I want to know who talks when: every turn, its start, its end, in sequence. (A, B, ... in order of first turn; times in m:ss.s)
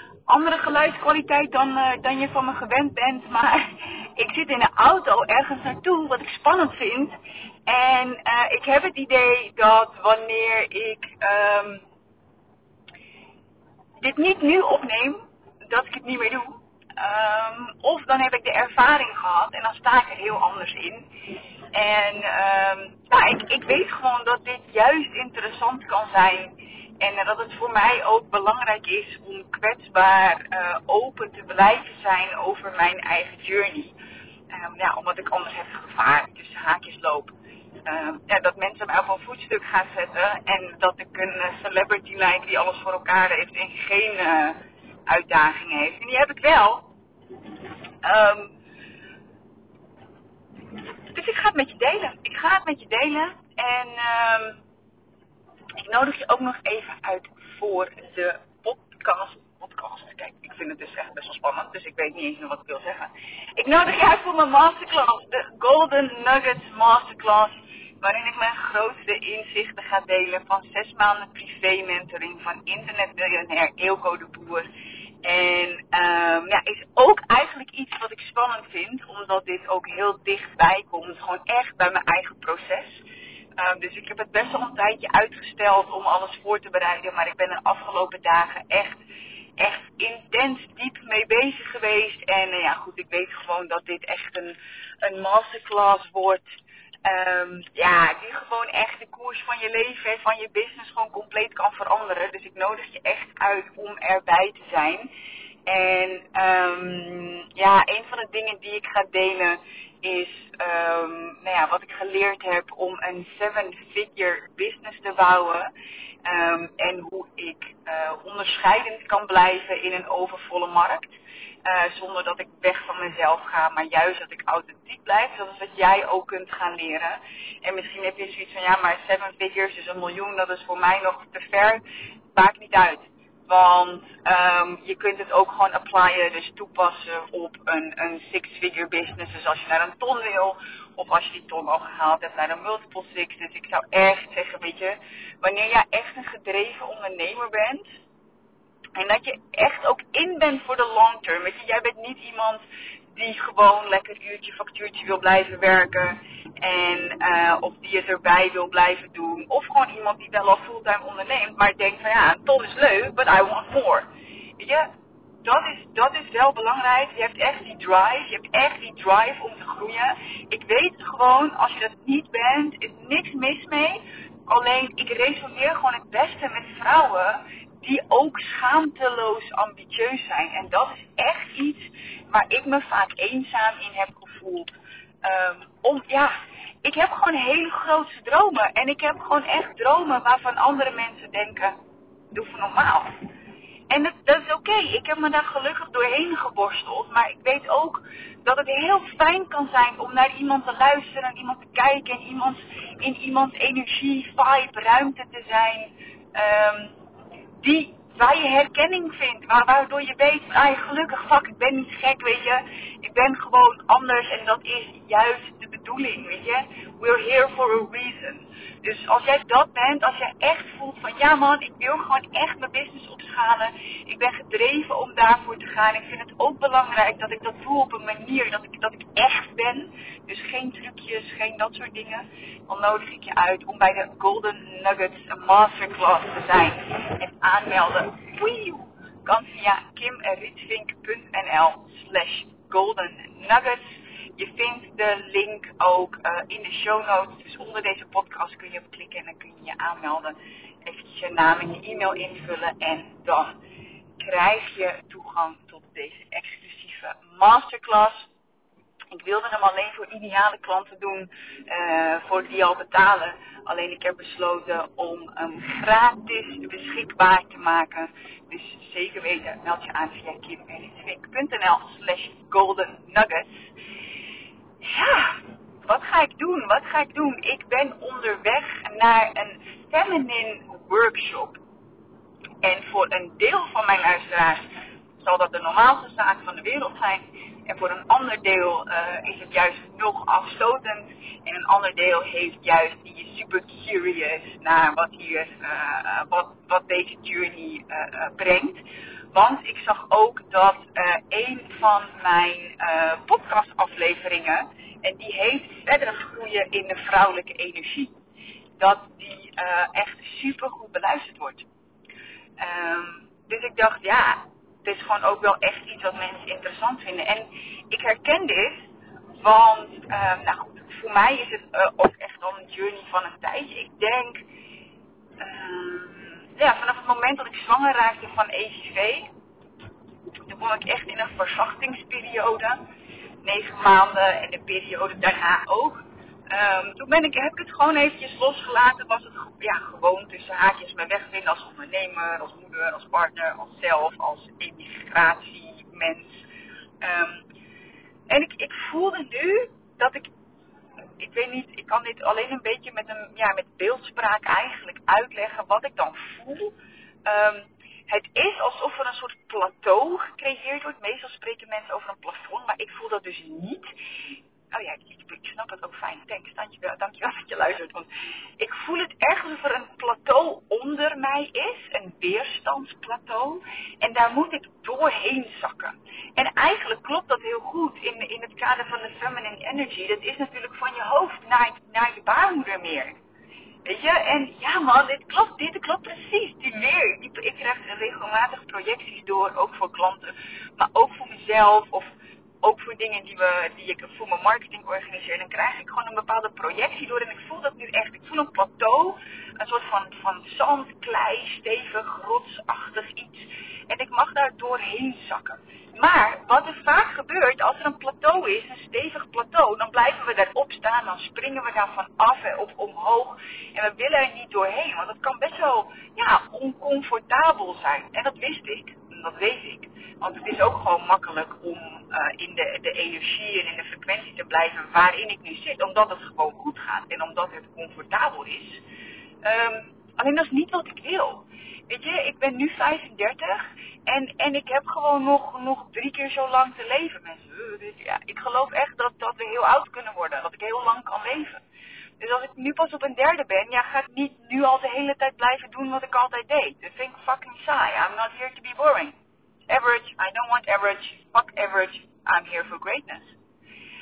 0:00.3-0:07.1 A
0:07.7-0:11.8 A
0:14.0-0:21.1 A
0:21.7-0:34.0 A
0:34.5-0:37.3 A
0:37.8-0:46.9 A
0:48.0-0:48.5 A
0:51.1-0:54.6 A
0:55.8-1:14.7 A
1:15.2-1:23.0 A
1:23.6-1:29.0 A
1:29.6-1:45.1 A
1:45.6-1:55.7 A
1:56.2-2:27.9 A
2:29.0-2:44.9 A
2:45.4-3:04.7 A
3:05.2-3:11.8 A
3:12.3-3:13.1 A
3:13.9-3:26.9 A
3:27.6-4:03.8 A
4:04.4-4:13.6 A
4:14.2-4:18.3 A
4:19.1-4:33.7 A
4:34.8-4:41.6 A
4:42.6-4:44.7 A
4:45.2-4:58.8 A
4:59.3-5:08.1 A
5:08.8-5:11.7 A
5:12.6-5:18.8 A
5:19.4-5:24.4 A
5:25.4-5:29.3 A
5:30.4-5:32.8 A
5:33.4-5:46.4 A
5:47.0-5:47.4 A
5:48.3-5:50.3 A
5:51.2-6:23.1 A
6:23.8-6:32.1 A
6:32.6-7:08.8 A
7:09.4-7:21.6 A
7:22.2-7:29.1 A
7:29.7-7:33.3 A